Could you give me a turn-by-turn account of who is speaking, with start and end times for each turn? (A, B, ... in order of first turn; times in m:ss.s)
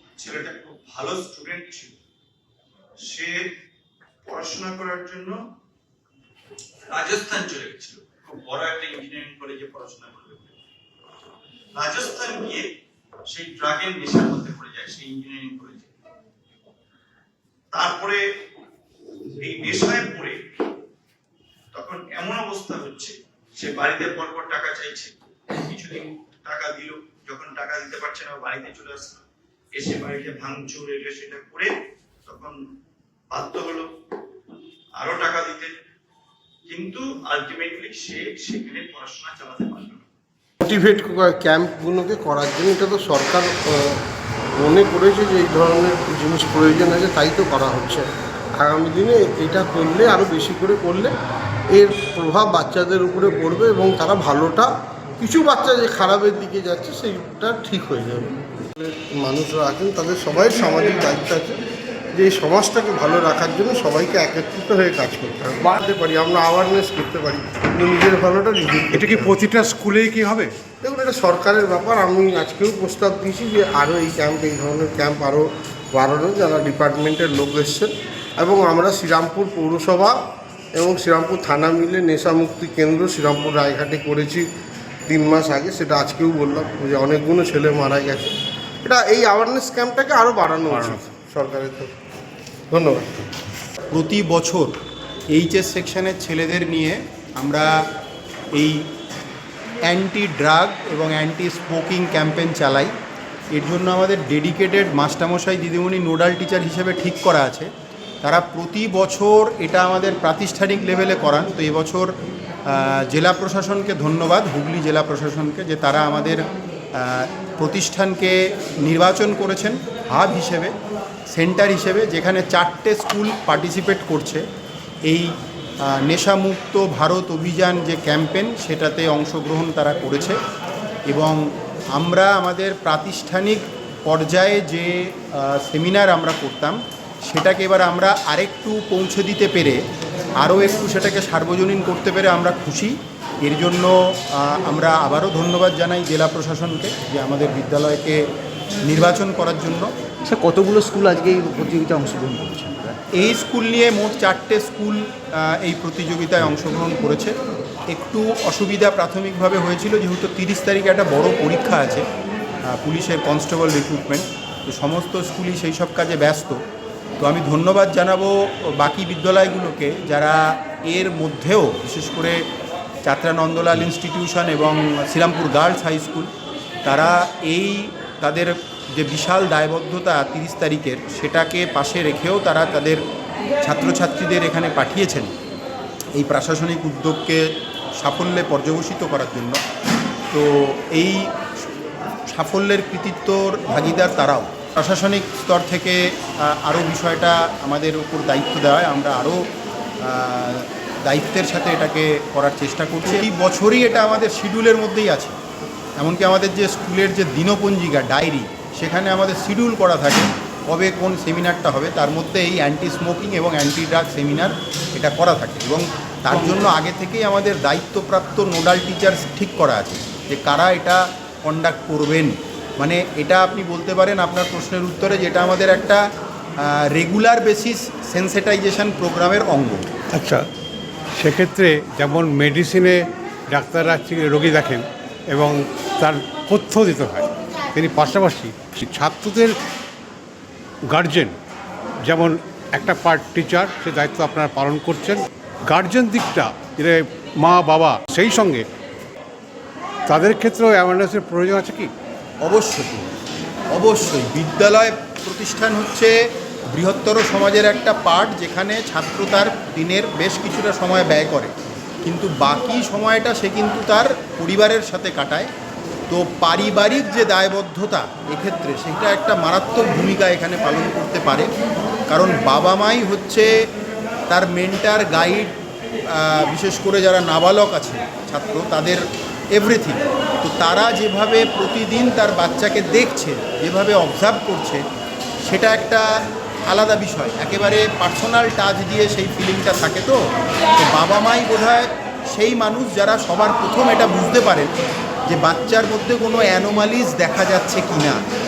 0:00.2-0:01.9 A
0:03.1-0:03.4 A
0:04.3-0:05.4 A
0:06.9-0:10.5 A
0:11.8-0:12.7 A
0:13.3-0:15.9 A
0:17.7-0:18.2 A
0:19.3-0:20.4 A
0:21.7-0:25.1 A
0:25.6-0:29.2 A
0:29.8-0:31.7 A
0:32.3-0:32.5 A
0:33.3-0:33.8 A
0:35.0-0:35.7 A
0:36.7-0:40.0 A
0:40.6-0:44.0 B
0:44.6-0:51.1 B
0:51.7-1:01.6 B
1:02.1-1:09.3 B
1:08.9-1:10.6 C
1:10.8-1:20.2 B
1:20.7-1:24.5 B
1:25.1-1:31.9 B
1:30.6-1:31.0 C
1:32.7-1:33.2 B
1:33.9-1:34.7 D
1:35.3-1:37.7 D
1:38.6-1:38.9 D
1:39.8-1:42.9 D
1:43.5-1:47.7 D
1:48.2-1:52.1 D
1:52.7-2:00.7 D
2:01.3-2:04.4 D
2:05.1-2:05.3 D
2:05.9-2:10.4 D
2:11.1-2:11.4 D
2:12.0-2:19.8 D
2:20.4-2:28.3 D
2:28.9-2:29.9 D
2:30.2-2:33.0 E
2:33.1-2:37.3 D
2:37.9-2:42.0 D
2:42.7-2:46.6 D
2:47.2-2:52.4 D
2:53.0-2:56.3 D
2:56.8-3:03.0 D
3:03.6-3:05.3 D
3:06.2-3:09.6 D
3:10.3-3:11.3 D
3:12.3-3:19.4 D
3:20.0-3:25.4 D
3:26.0-3:46.0 D
3:46.6-3:49.9 D
3:50.1-3:50.4 C
3:51.2-3:59.6 C
4:00.9-4:01.4 C
4:02.0-4:08.6 C
4:10.1-4:11.9 C
4:12.4-4:13.1 D
4:13.7-4:16.1 D
4:16.7-4:25.5 D
4:26.1-4:31.5 D
4:32.1-4:33.5 D
4:34.3-4:35.5 D
4:36.1-4:44.8 D
4:45.4-4:46.1 D
4:46.7-4:50.2 D
4:50.8-4:54.8 D
4:55.3-4:58.2 D